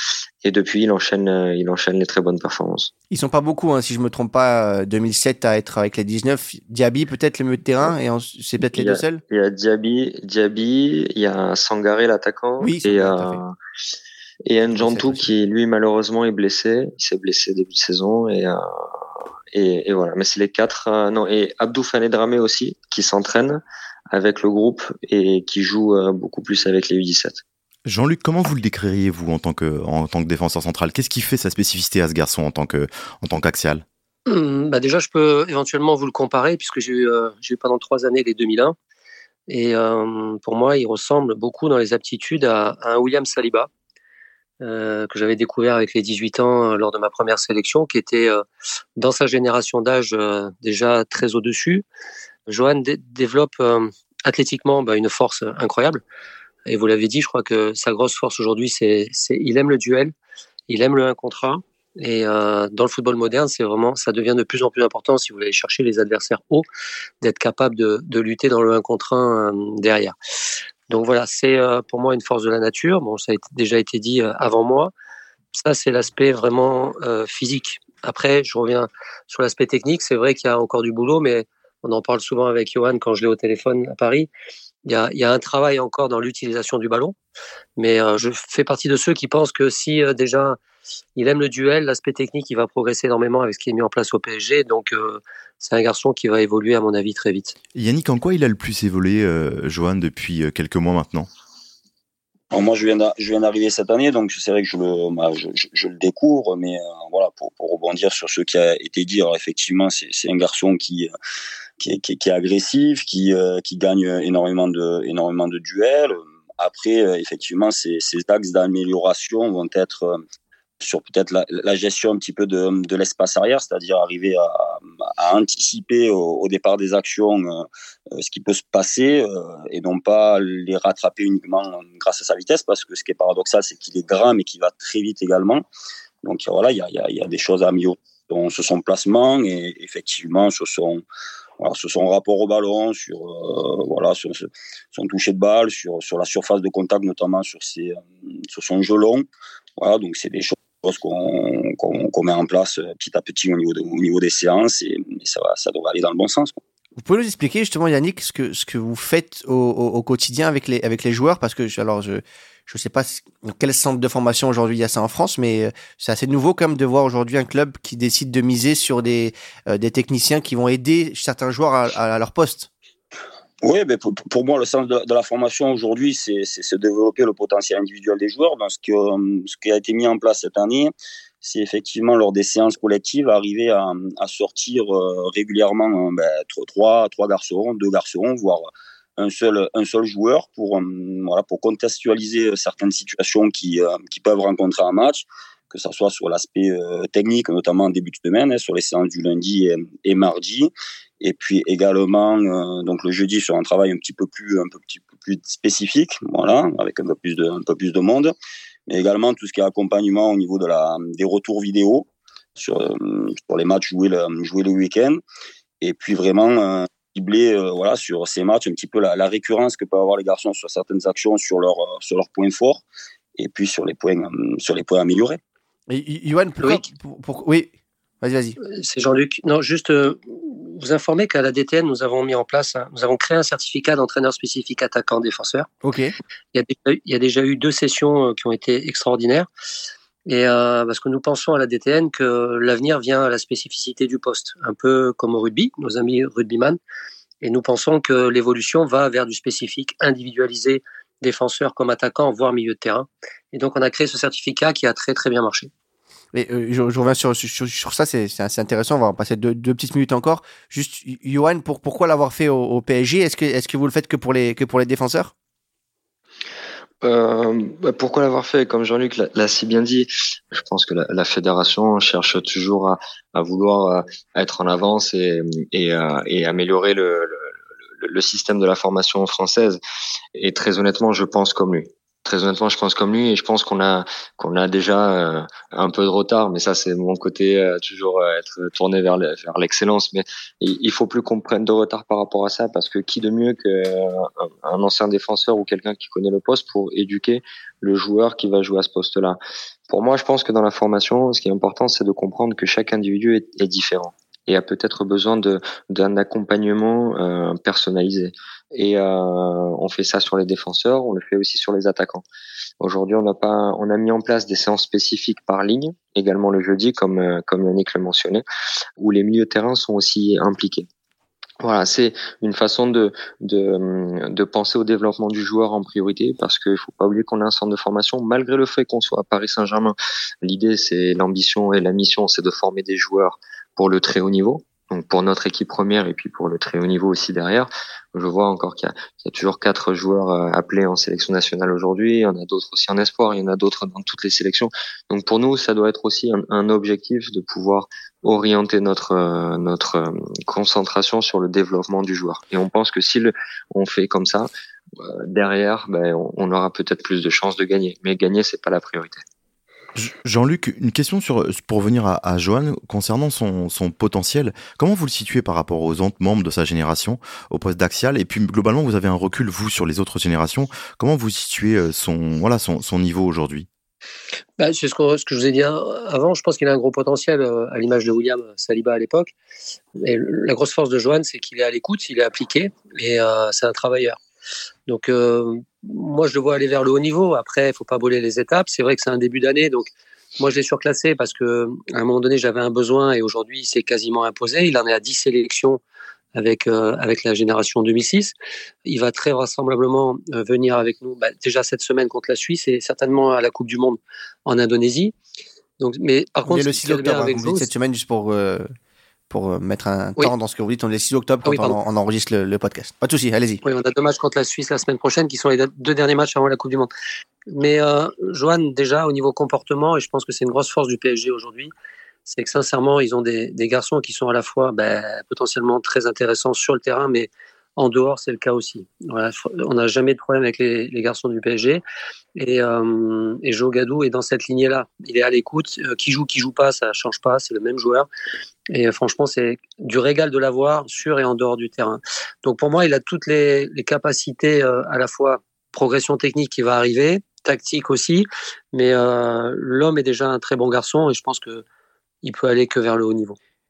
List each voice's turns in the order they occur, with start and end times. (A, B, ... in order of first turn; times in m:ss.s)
0:00.4-0:02.9 A
0:03.1-0:09.2 B
0:08.6-0:13.5 A
0:12.6-0:13.4 B
0:14.4-0:18.6 A
0:14.7-0:15.3 B
0:19.5-0:27.4 A
0:27.8-0:33.8 C
0:34.3-0:38.8 D
0:39.5-0:43.7 D
0:44.6-0:48.4 D
0:49.0-0:51.8 D
0:52.5-0:56.0 D
0:56.6-1:00.1 D
1:00.7-1:06.6 D
1:07.2-1:10.2 D
1:10.9-1:14.9 D
1:15.5-1:24.3 D
1:24.8-1:27.1 D
1:27.8-1:30.6 D
1:31.2-1:37.5 D
1:37.7-1:41.3 C
1:42.5-1:51.1 E
1:51.8-2:00.2 E
2:00.8-2:15.6 E
2:16.2-2:21.0 E
2:21.6-2:29.2 E
2:29.8-2:36.6 E
2:37.0-2:52.7 B
2:53.6-3:28.3 E
3:28.9-3:35.2 E
3:35.8-3:42.8 E
3:43.4-3:45.4 E
3:45.9-3:48.6 B
3:48.6-3:55.7 D
3:55.8-3:56.1 B
3:56.5-3:59.5 D
4:00.2-4:06.8 D
4:07.4-4:15.7 D
4:16.3-4:25.3 B
4:27.0-4:39.8 A
4:40.3-5:12.2 A
5:12.8-5:18.4 A
5:19.0-5:20.8 A
5:21.6-5:59.2 A
6:00.0-6:13.7 C
6:14.6-6:19.3 D
6:20.0-6:24.2 D
6:24.9-6:35.8 D
6:36.3-6:38.3 D
6:38.8-6:45.1 D
6:45.8-6:47.7 D
6:46.5-6:48.7 B
6:49.3-6:53.6 B
6:51.4-6:51.8 D
6:53.6-6:56.9 D
6:57.5-7:01.7 D
7:02.3-7:11.8 D
7:12.4-7:18.1 D
7:18.7-7:31.6 D
7:32.2-7:33.4 D